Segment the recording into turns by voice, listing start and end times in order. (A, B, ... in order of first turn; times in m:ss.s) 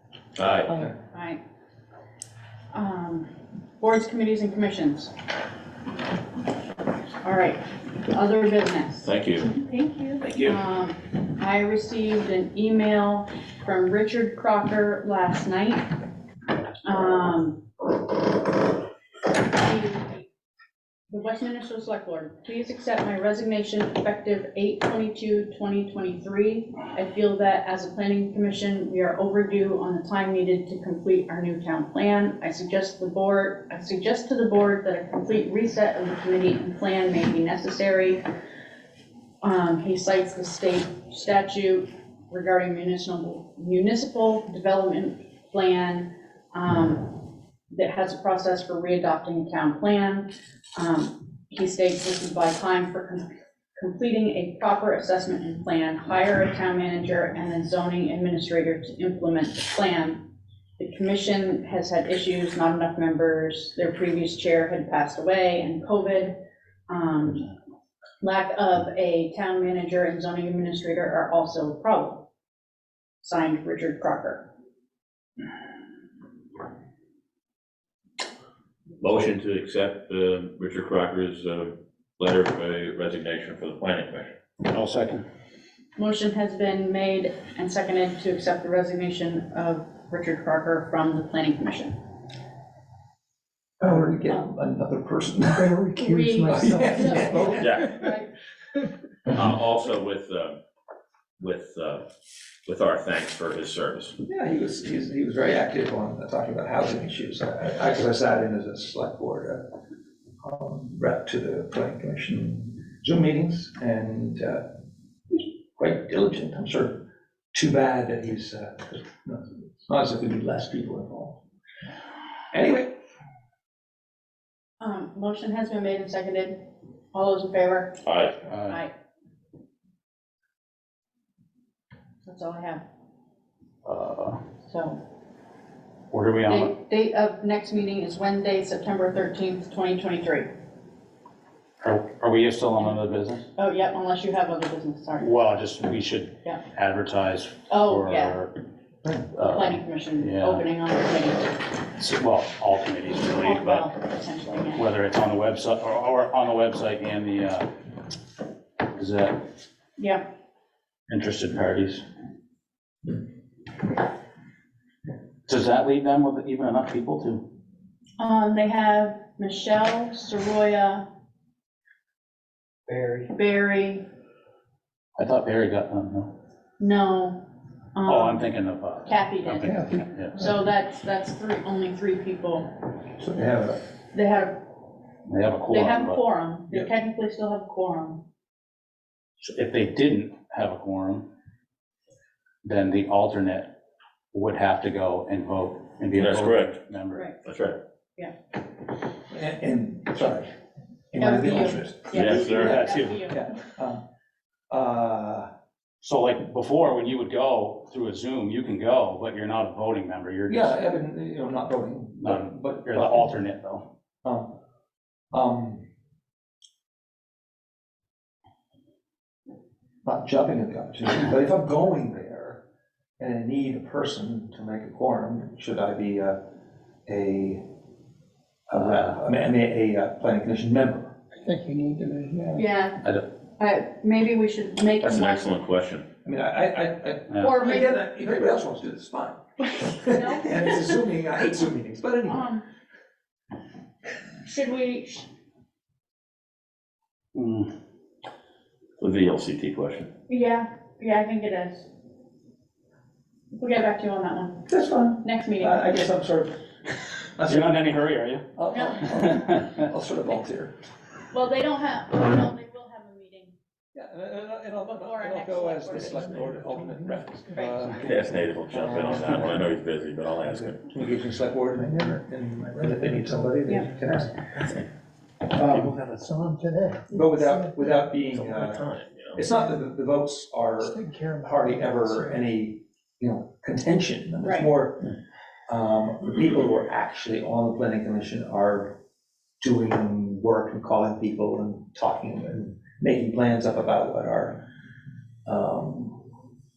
0:00.4-0:00.7 A
0:01.1-0:01.4 B
0:02.7-0:03.3 B
0:03.8-0:05.1 B
0:07.2-0:15.9 B
0:09.0-0:09.5 A
0:10.2-0:10.6 A
0:16.8-0:17.6 B
0:19.4-0:20.2 B
0:21.1-0:38.2 B
0:39.4-1:06.3 B
1:06.9-1:07.5 B
1:08.2-1:12.2 B
1:13.2-1:14.4 B
1:19.0-1:24.3 A
1:24.6-1:25.2 C
1:26.0-1:32.0 B
1:33.8-1:35.8 D
1:35.4-1:38.1 E
1:36.0-1:38.3 B
1:36.5-1:37.7 D
1:37.6-1:37.9 A
1:39.3-1:40.6 A
1:41.4-1:42.0 A
1:42.6-1:44.2 A
1:44.2-1:49.7 D
1:50.4-1:54.6 D
1:55.3-1:57.0 D
1:57.5-2:01.4 D
2:02.5-2:02.9 D
2:04.8-2:06.6 B
2:07.1-2:08.0 B
2:08.0-2:08.4 A
2:08.4-2:08.8 C
2:08.7-2:08.9 B
2:12.2-2:12.8 B
2:13.8-2:14.4 C
2:14.6-2:15.0 B
2:16.1-2:16.7 C
2:16.5-2:20.5 B
2:21.8-2:23.4 C
2:23.6-2:25.3 B
2:25.2-2:28.5 C
2:27.7-2:28.4 B
2:29.3-2:30.6 C
2:29.4-2:31.6 B
2:32.0-2:33.9 C
2:33.2-2:34.9 B
2:34.7-2:37.7 C
2:38.9-2:39.4 C
2:41.1-2:42.0 C
2:45.4-2:47.4 C
2:48.2-2:51.0 B
2:53.3-2:54.0 B
2:55.2-2:56.3 C
2:56.8-2:57.4 B
2:57.9-2:58.4 B
2:58.0-3:00.4 C
2:59.0-2:59.8 B
2:59.6-3:00.1 E
3:00.3-3:02.8 B
3:03.2-3:03.8 D
3:04.1-3:04.8 B
3:05.2-3:06.2 C
3:05.7-3:08.2 B
3:09.4-3:11.2 C
3:12.6-3:13.7 C
3:14.3-3:17.3 C
3:16.1-3:16.8 A
3:17.4-3:17.8 A
3:19.3-3:20.5 D
3:21.1-3:22.4 D
3:21.2-3:23.4 B
3:22.1-3:23.3 C
3:22.1-3:22.9 A
3:23.3-3:24.0 D
3:24.7-3:25.5 D
3:26.0-3:30.8 C
3:30.5-3:33.4 D
3:32.2-3:33.8 C
3:34.2-3:34.5 D
3:35.3-3:35.8 D
3:40.0-3:42.6 D
3:43.2-3:46.4 D
3:47.1-3:47.6 D
3:48.7-3:51.1 D
3:48.8-3:49.1 C
3:51.4-3:52.6 E
3:52.6-3:53.1 B
3:53.6-3:55.5 B
3:55.0-3:56.0 A
3:56.2-4:02.5 D
3:57.4-3:58.0 B
3:59.8-4:01.0 B
4:02.3-4:02.6 B
4:04.4-4:05.3 B
4:07.3-4:07.7 C
4:09.0-4:10.1 A
4:10.3-4:11.9 B
4:13.5-4:14.7 B
4:14.7-4:16.5 D
4:15.2-4:15.9 B
4:17.4-4:17.8 D
4:17.5-4:18.4 C
4:18.6-4:20.7 D
4:18.7-4:19.1 B
4:19.0-4:19.8 C
4:21.3-4:23.5 B
4:23.9-4:28.1 D
4:24.8-4:26.4 B
4:26.0-4:29.6 E
4:28.0-4:30.9 A
4:28.7-4:29.7 D
4:30.4-4:34.4 D
4:31.8-4:34.4 E
4:35.5-4:38.2 E
4:37.1-4:45.1 D
4:38.3-4:39.4 A
4:39.5-4:39.8 E
4:40.8-4:42.4 E
4:44.4-4:44.7 B
4:45.7-4:49.0 D
4:49.6-4:54.6 D
4:55.4-4:56.2 D